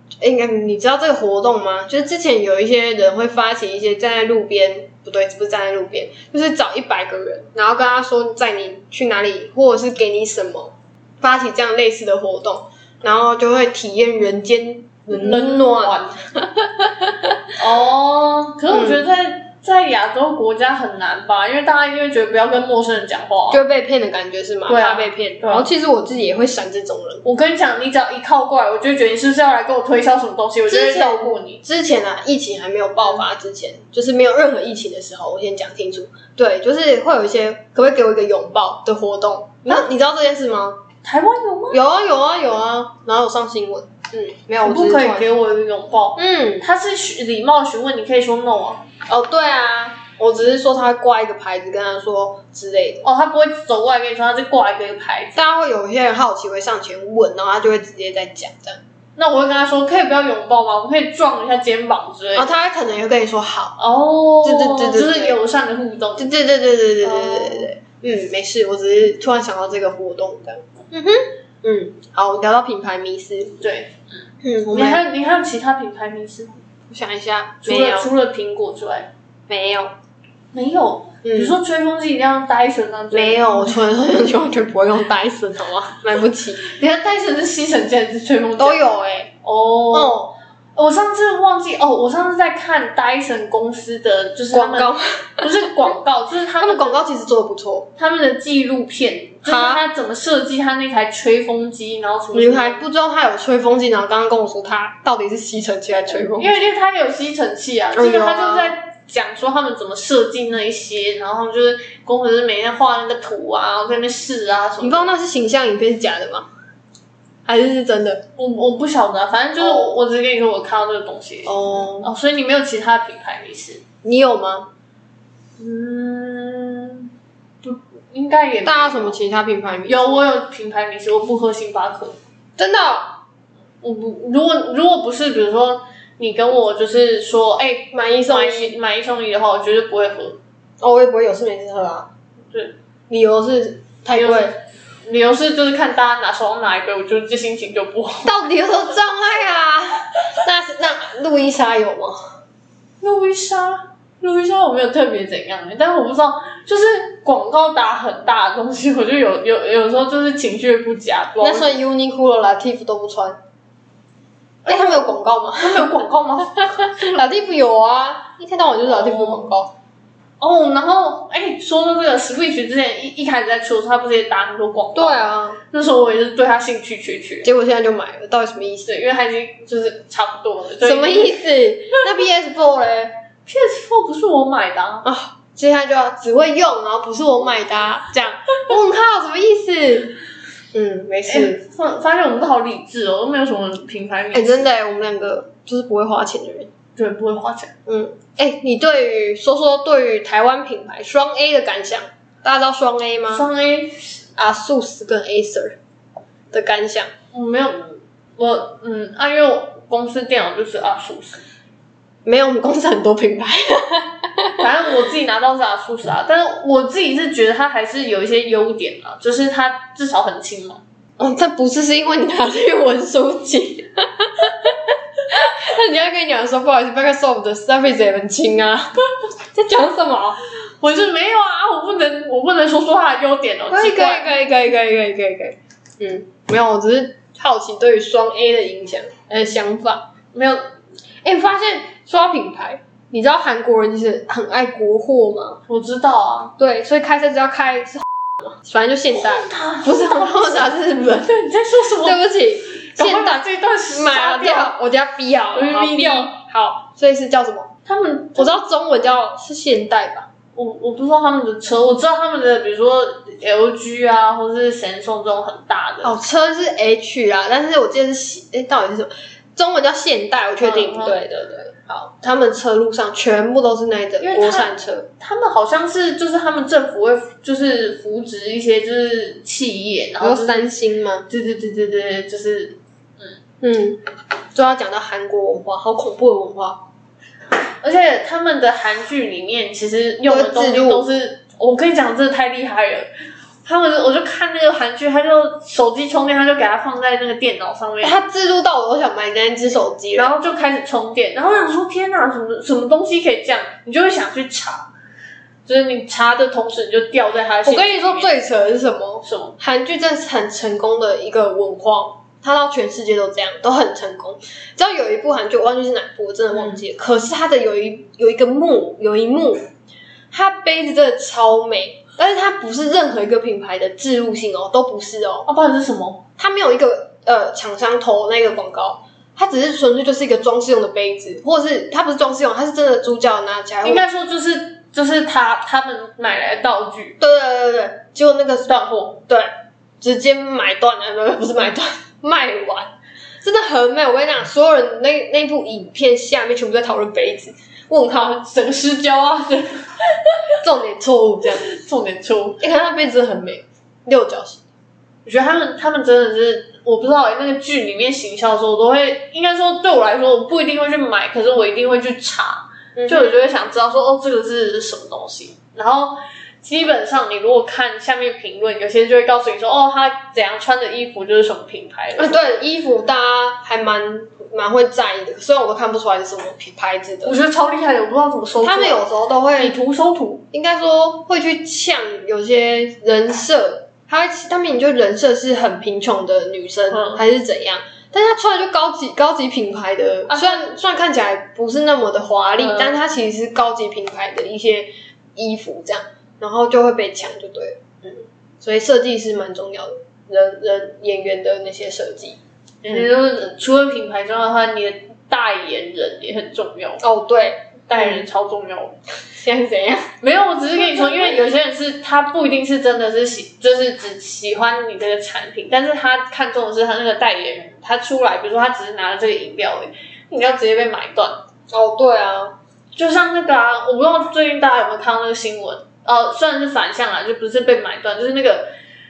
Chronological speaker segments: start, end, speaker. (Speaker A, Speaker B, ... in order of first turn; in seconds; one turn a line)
Speaker A: 0.2-17.4
Speaker B: 15.1-16.2
Speaker B: 17.6-23.6
Speaker A: 18.7-19.0
Speaker A: 23.5-27.2
Speaker B: 24.7-25.7
Speaker B: 27.2-31.6
Speaker A: 30.7-40.8
Speaker B: 41.0-41.8
Speaker A: 41.7-45.3
Speaker B: 44.6-48.8
Speaker A: 46.1-46.7
Speaker A: 49.1-53.0
Speaker B: 53.0-55.4
Speaker A: 55.4-58.8
Speaker B: 59.2-62.5
Speaker A: 62.3-63.7
Speaker B: 63.8-66.3
Speaker A: 64.4-65.4
Speaker A: 66.2-73.6
Speaker B: 67.0-67.7
Speaker B: 73.6-76.6
Speaker A: 74.4-75.0
Speaker A: 76.9-78.1
Speaker B: 77.6-79.1
Speaker A: 79.5-79.9
Speaker B: 80.5-83.7
Speaker A: 81.2-81.5
Speaker A: 83.1-86.6
Speaker B: 86.6-88.8
Speaker A: 88.6-89.3
Speaker B: 89.4-90.2
Speaker A: 89.9-90.3
Speaker B: 90.8-97.0
Speaker A: 94.5-95.7
Speaker A: 96.6-97.9
Speaker B: 98.0-102.8
Speaker A: 99.4-99.8
Speaker A: 102.3-106.6
Speaker B: 106.1-115.1
Speaker A: 107.9-108.7
Speaker A: 114.8-116.5
Speaker A: 117.5-118.2
Speaker B: 118.3-123.8
Speaker A: 119.6-119.9
Speaker A: 121.5-122.1
Speaker A: 124.0-124.7
Speaker B: 125.6-127.1
Speaker B: 127.6-129.2
Speaker A: 128.6-130.2
Speaker B: 129.9-132.2
Speaker A: 132.6-133.2
Speaker B: 133.8-140.4
Speaker A: 137.9-138.7
Speaker A: 140.8-142.1
Speaker A: 143.1-144.5
Speaker B: 144.1-148.4
Speaker A: 148.2-152.4
Speaker B: 153.0-161.8
Speaker A: 161.4-163.4
Speaker B: 164.6-167.0
Speaker A: 164.7-165.9
Speaker A: 166.6-169.7
Speaker B: 168.8-169.5
Speaker B: 170.4-177.5
Speaker A: 174.9-175.6
Speaker A: 177.4-178.9
Speaker B: 178.8-181.4
Speaker A: 180.8-183.1
Speaker B: 183.4-185.1
Speaker A: 185.0-190.2
Speaker A: 190.7-191.6
Speaker B: 191.2-194.7
Speaker A: 194.3-196.7
Speaker B: 196.9-197.7
Speaker A: 197.9-203.4
Speaker B: 203.3-204.2
Speaker A: 204.4-205.8
Speaker A: 206.5-207.1
Speaker B: 207.3-211.4
Speaker A: 212.2-214.6
Speaker B: 214.6-220.8
Speaker A: 221.2-230.4
Speaker B: 230.8-234.3
Speaker A: 233.7-240.1
Speaker B: 240.3-240.7
Speaker A: 241.2-245.6
Speaker B: 245.7-246.5
Speaker A: 246.6-251.5
Speaker B: 249.1-250.6
Speaker B: 251.3-252.2
Speaker A: 252.0-257.7
Speaker B: 252.8-254.7
Speaker B: 255.5-256.3
Speaker B: 257.9-258.5
Speaker A: 258.4-260.3
Speaker B: 260.5-266.1
Speaker A: 266.0-275.1
Speaker B: 270.6-271.2
Speaker B: 274.2-280.7
Speaker A: 280.2-281.3
Speaker B: 281.3-283.4
Speaker A: 283.6-284.0
Speaker A: 284.5-286.8
Speaker B: 287.8-293.1
Speaker A: 290.2-291.1
Speaker B: 293.6-298.1
Speaker A: 298.0-300.3
Speaker B: 300.1-304.9
Speaker B: 305.6-308.4
Speaker A: 307.6-319.6
Speaker B: 309.2-309.6
Speaker A: 320.3-325.5
Speaker B: 325.4-326.2
Speaker A: 326.4-334.0
Speaker B: 333.8-337.2
Speaker A: 337.2-338.7
Speaker B: 338.7-339.2
Speaker A: 339.3-348.4
Speaker B: 348.1-350.5
Speaker A: 350.6-351.6
Speaker B: 351.6-352.6
Speaker A: 352.6-354.6
Speaker B: 355.2-372.5
Speaker A: 362.9-363.4
Speaker A: 372.2-377.3
Speaker B: 377.2-379.1
Speaker A: 378.6-379.8
Speaker B: 379.6-380.4
Speaker A: 380.5-402.4
Speaker B: 386.9-387.2
Speaker B: 390.3-390.6
Speaker B: 392.6-392.9
Speaker B: 402.8-407.0
Speaker A: 407.0-408.2
Speaker B: 407.9-409.0
Speaker A: 409.3-410.1
Speaker B: 410.2-421.4
Speaker A: 410.8-411.4
Speaker A: 421.7-422.5
Speaker B: 422.9-428.7